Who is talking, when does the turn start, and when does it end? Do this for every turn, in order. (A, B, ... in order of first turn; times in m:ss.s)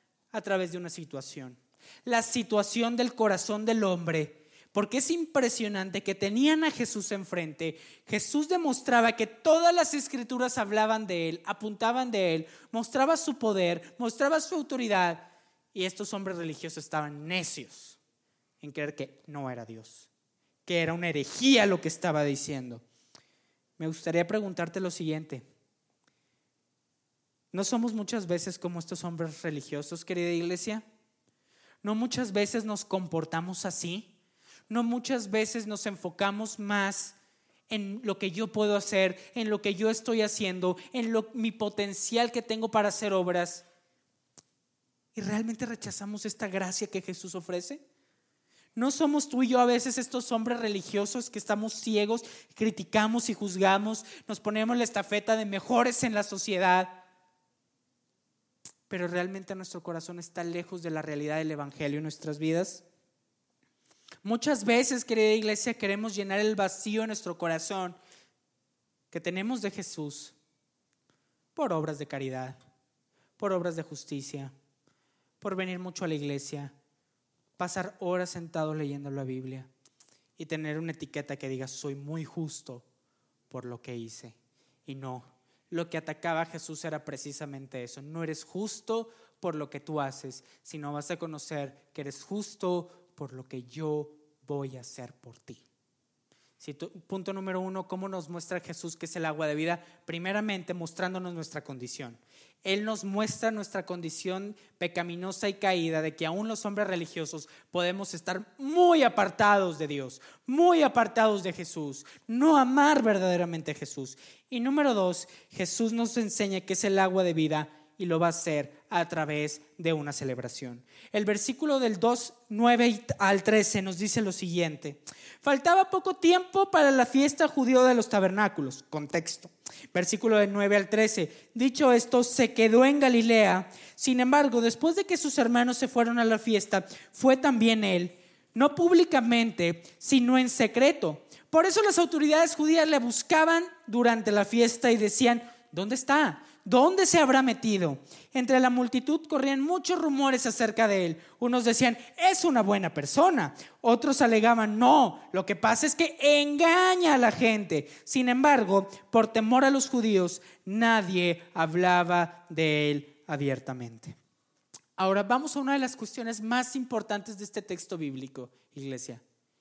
0:00.3-0:18.0 A
0:18.6-0:20.1 A
0:20.7-0:22.8 A
0:23.8-0:25.5 A
0:27.5-0:30.8 A
0:31.8-0:34.1 A
0:34.7-0:37.2 A
0:37.7-0:43.7 A
0:45.2-0:47.8 A
0:48.8-0:57.0 A
0:58.9-1:02.8 A
1:04.2-1:08.0 A
1:09.1-1:10.4 A
1:11.5-1:12.6 A
1:13.4-1:14.5 A
1:15.4-1:16.7 A
1:17.6-1:19.7 A
1:20.4-1:22.9 A
1:23.5-1:35.6 A
1:36.6-2:44.2 A
2:45.0-2:49.2 A